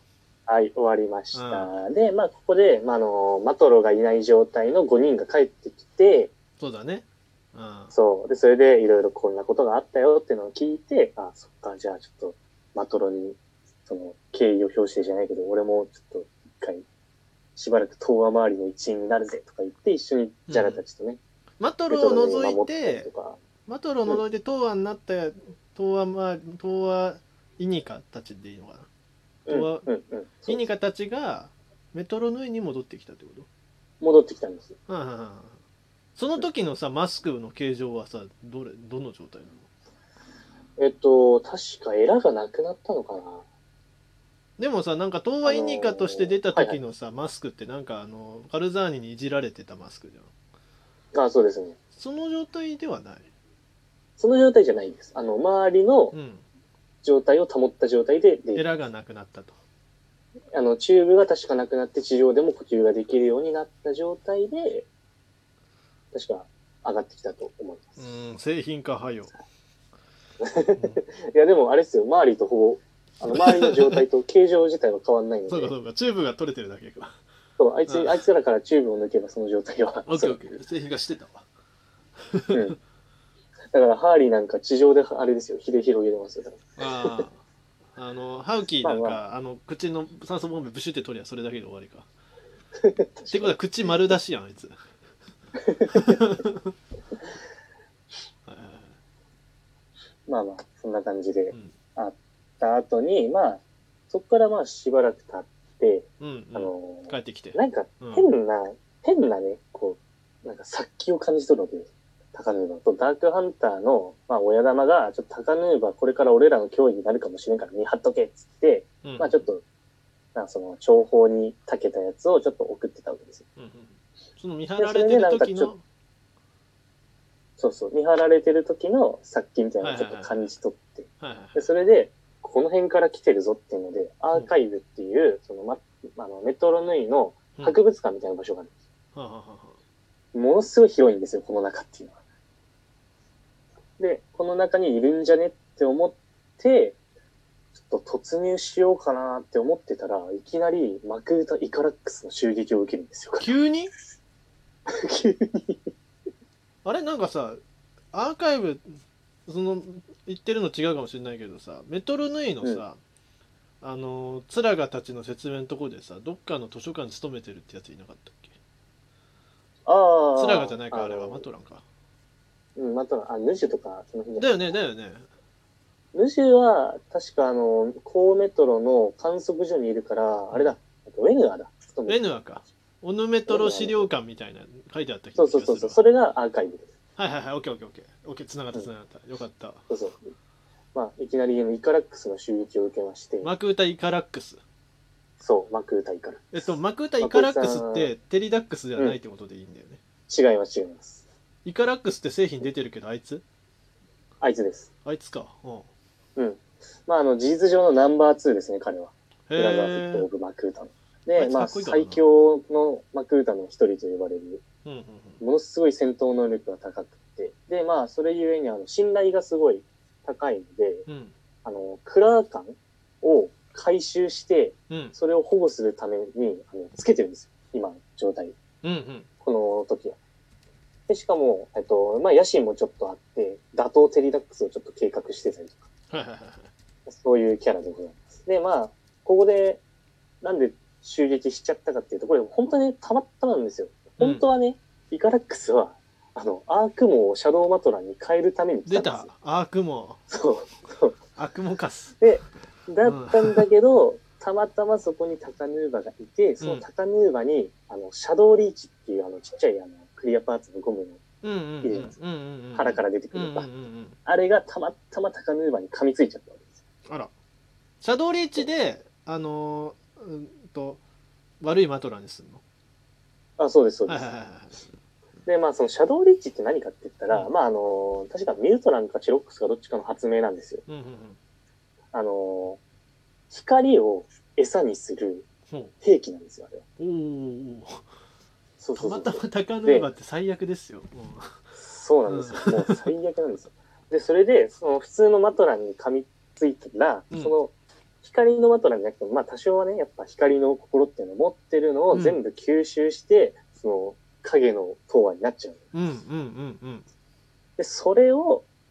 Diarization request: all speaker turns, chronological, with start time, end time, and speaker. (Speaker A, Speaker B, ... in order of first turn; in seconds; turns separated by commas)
Speaker A: 0.5-6.3, Speaker B: 1.3-1.7, Speaker B: 6.6-7.9, Speaker A: 7.9-16.8, Speaker A: 17.6-21.2, Speaker B: 20.5-20.8, Speaker B: 21.6-23.1, Speaker A: 21.9-23.4, Speaker B: 23.6-28.9, Speaker B: 29.5-29.9, Speaker A: 29.5-30.6, Speaker B: 30.4-33.5, Speaker A: 34.0-34.8, Speaker B: 34.9-35.6, Speaker B: 36.2-39.7, Speaker A: 40.8-43.4, Speaker B: 44.6-50.3, Speaker A: 45.4-46.8, Speaker A: 51.1-51.8, Speaker B: 52.0-53.3, Speaker A: 54.2-56.1, Speaker B: 56.1-56.5, Speaker A: 57.0-58.7, Speaker B: 58.5-59.5, Speaker A: 60.5-64.9, Speaker A: 66.1-68.0, Speaker B: 68.0-69.3, Speaker A: 70.4-75.8, Speaker B: 70.8-71.0, Speaker B: 73.3-74.0, Speaker B: 75.5-77.2, Speaker A: 77.6-80.6, Speaker B: 77.9-78.2, Speaker B: 80.1-81.5, Speaker B: 82.3-82.6, Speaker A: 83.7-87.1, Speaker B: 86.8-87.4, Speaker B: 88.0-92.1, Speaker A: 88.8-89.2, Speaker A: 92.8-93.6, Speaker B: 93.3-94.8, Speaker A: 95.6-96.2, Speaker B: 95.9-96.6, Speaker B: 98.5-98.9, Speaker A: 100.3-119.6, Speaker B: 106.2-108.3, Speaker B: 119.0-119.5, Speaker A: 120.3-123.5, Speaker B: 123.6-125.8, Speaker A: 124.8-125.7, Speaker A: 127.6-138.7, Speaker B: 129.8-130.5, Speaker B: 131.2-131.7, Speaker B: 139.2-139.8, Speaker A: 140.3-142.2, Speaker A: 144.0-147.0, Speaker A: 147.8-153.5, Speaker B: 153.4-153.9, Speaker A: 154.9-155.9, Speaker B: 156.8-157.6, Speaker B: 158.1-163.0, Speaker B: 163.8-168.5, Speaker A: 169.8-171.4, Speaker B: 170.4-171.8, Speaker A: 172.8-174.7, Speaker B: 174.4-175.2, Speaker A: 176.1-182.3, Speaker B: 180.5-180.8, Speaker B: 182.1-186.0, Speaker A: 183.5-184.1, Speaker A: 185.4-186.9, Speaker B: 187.2-189.8, Speaker A: 189.9-190.2, Speaker A: 190.9-193.5, Speaker B: 193.4-194.6, Speaker A: 195.4-196.5, Speaker B: 196.5-200.0, Speaker A: 197.2-198.1, Speaker A: 200.3-201.2, Speaker B: 201.7-203.4, Speaker A: 204.4-204.9, Speaker B: 205.0-205.9, Speaker A: 206.4-214.6, Speaker B: 209.5-210.3, Speaker B: 211.4-212.2, Speaker B: 214.8-215.4, Speaker A: 215.4-221.1, Speaker B: 221.1-221.3, Speaker A: 221.7-228.6, Speaker B: 224.9-225.2, Speaker B: 228.8-229.3, Speaker A: 229.4-230.2, Speaker A: 231.1-235.9, Speaker B: 236.1-236.7, Speaker A: 237.1-239.8, Speaker A: 240.4-249.3, Speaker B: 244.2-244.4, Speaker B: 248.9-250.2, Speaker A: 250.3-251.2, Speaker B: 251.4-252.2, Speaker A: 252.2-261.2, Speaker B: 253.0-253.7, Speaker B: 261.4-264.2, Speaker A: 261.8-262.2, Speaker A: 262.8-263.7, Speaker A: 264.3-266.6, Speaker B: 268.0-271.0, Speaker B: 271.6-272.6, Speaker A: 273.6-274.3, Speaker B: 274.1-274.8, Speaker A: 275.5-280.8, Speaker B: 280.9-281.4, Speaker A: 282.1-282.8, Speaker A: 283.5-285.5, Speaker A: 286.0-286.8, Speaker B: 287.0-288.0, Speaker A: 288.8-290.1, Speaker B: 288.9-291.6, Speaker A: 291.8-305.8, Speaker B: 292.3-293.1, Speaker B: 302.1-302.4, Speaker B: 305.9-307.1, Speaker A: 307.8-308.7